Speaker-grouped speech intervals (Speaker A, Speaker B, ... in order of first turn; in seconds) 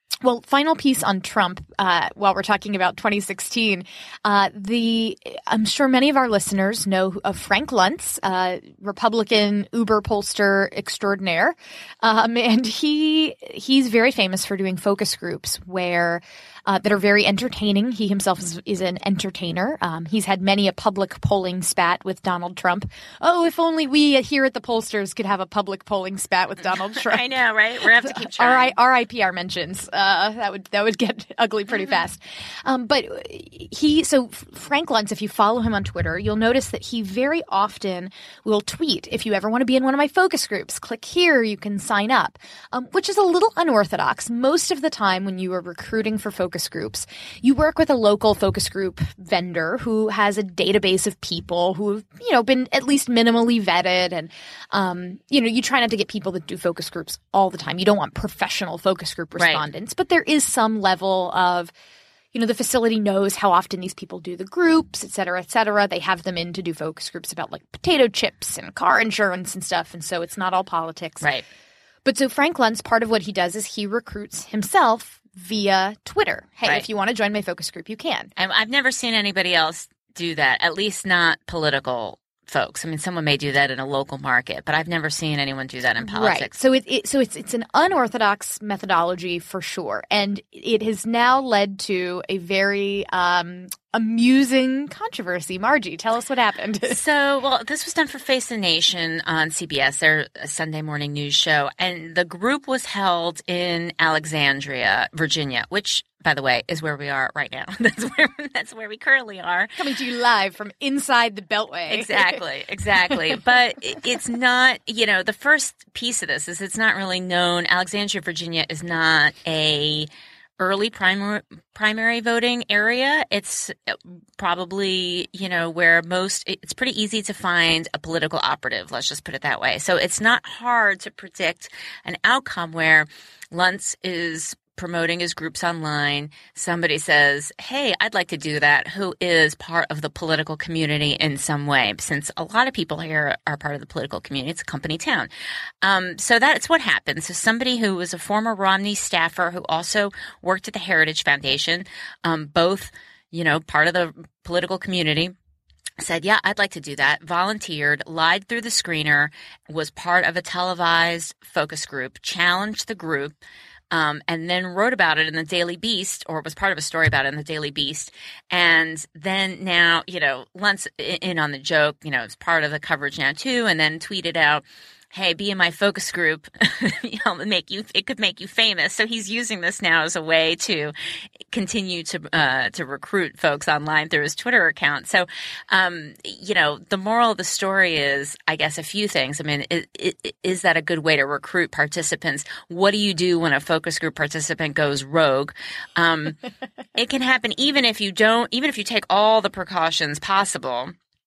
Speaker A: 0.2-27.2, 27.9-61.7, 62.3-71.3, 72.0-78.3, 86.0-97.0, 109.8-112.4
Speaker B: 26.7-28.7, 78.4-86.5, 96.9-109.8, 111.9-145.3, 145.8-155.3, 156.0-163.3, 163.9-180.9, 181.5-196.4, 196.9-200.9